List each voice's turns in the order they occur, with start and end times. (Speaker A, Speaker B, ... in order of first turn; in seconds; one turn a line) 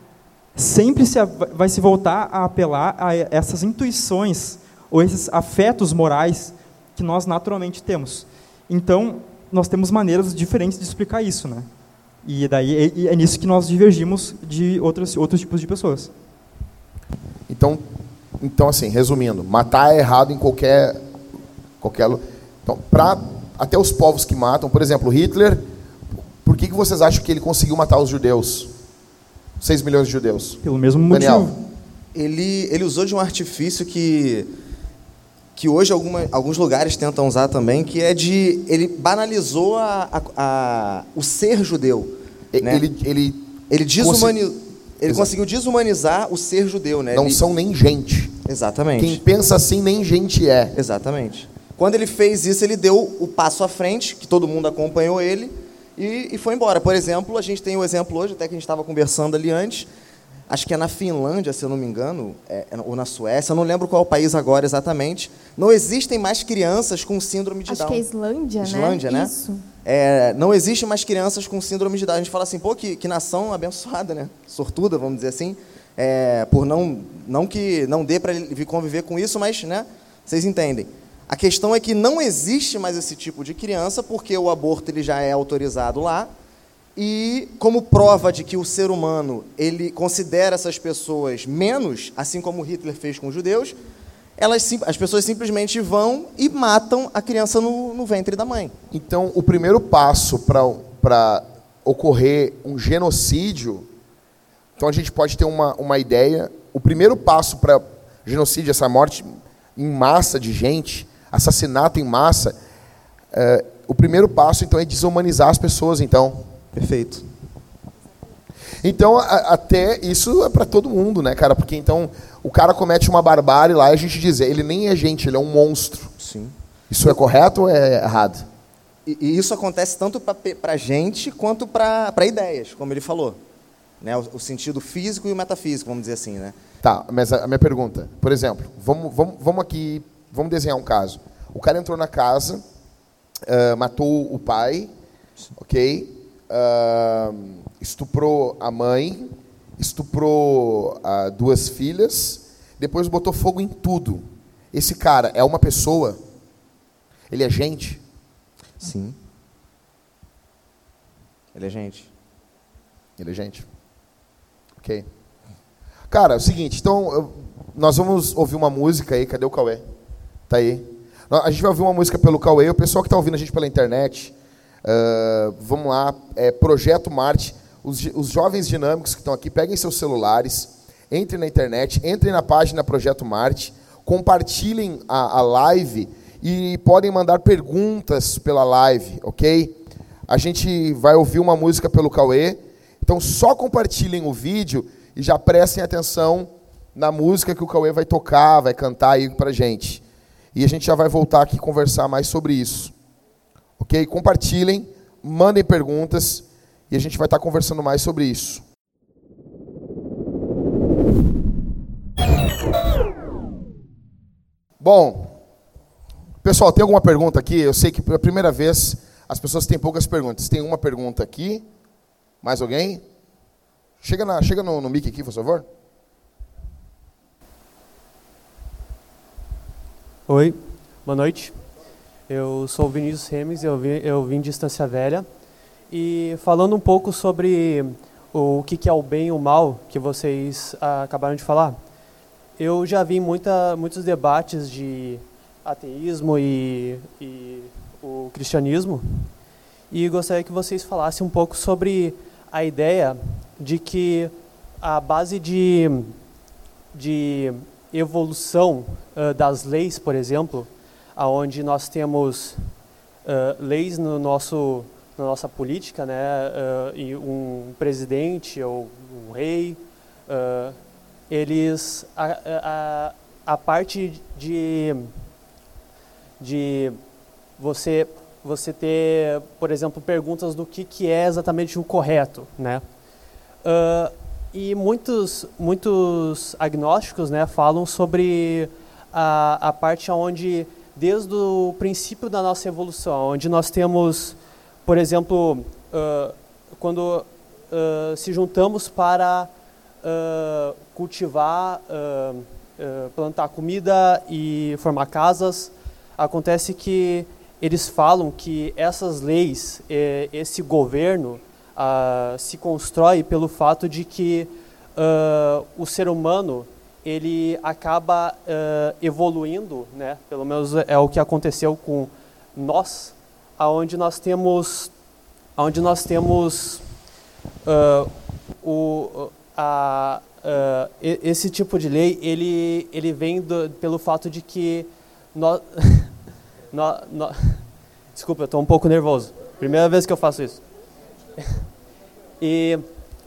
Speaker A: 0.6-11.7
Speaker A: 12.2-16.1
Speaker B: 17.5-17.8
Speaker B: 18.4-21.1
Speaker B: 21.8-25.6
Speaker B: 26.4-28.7
Speaker B: 29.6-31.5
Speaker A: 30.6-31.6
Speaker C: 32.1-34.5
Speaker C: 35.6-42.9
Speaker B: 42.5-44.4
Speaker C: 43.7-47.4
Speaker B: 45.1-45.3
Speaker B: 47.1-48.4
Speaker C: 48.5-49.2
Speaker B: 49.0-50.8
Speaker C: 50.8-59.9
Speaker C: 60.5-68.0
Speaker D: 67.7-69.6
Speaker C: 68.6-69.3
Speaker C: 69.8-86.3
Speaker C: 87.0-93.8
Speaker C: 94.4-98.7
Speaker B: 98.9-103.9
Speaker B: 104.8-112.6
Speaker B: 113.3-116.5
Speaker C: 116.7-117.2
Speaker B: 118.8-126.1
Speaker C: 126.2-126.5
Speaker B: 126.9-128.5
Speaker C: 129.1-133.4
Speaker C: 134.0-136.6
Speaker B: 136.8-142.6
Speaker B: 143.4-144.9
Speaker B: 145.6-156.2
Speaker B: 157.3-158.0
Speaker C: 158.8-159.2
Speaker C: 161.5-162.1
Speaker B: 163.2-163.7
Speaker B: 164.8-165.1
Speaker B: 166.1-169.8
Speaker B: 170.5-202.9
Speaker B: 203.8-208.6
Speaker B: 214.8-215.4
Speaker B: 216.4-221.6
Speaker B: 222.4-223.0
Speaker B: 224.0-225.7
Speaker E: 230.3-231.6
Speaker E: 232.3-235.3
Speaker E: 235.9-241.8
Speaker E: 242.6-249.3
Speaker E: 249.9-256.2
Speaker E: 256.9-275.2
Speaker E: 276.4-282.8
Speaker E: 283.6-324.9
Speaker E: 325.6-326.9
Speaker E: 327.6-340.7
Speaker E: 342.4-342.9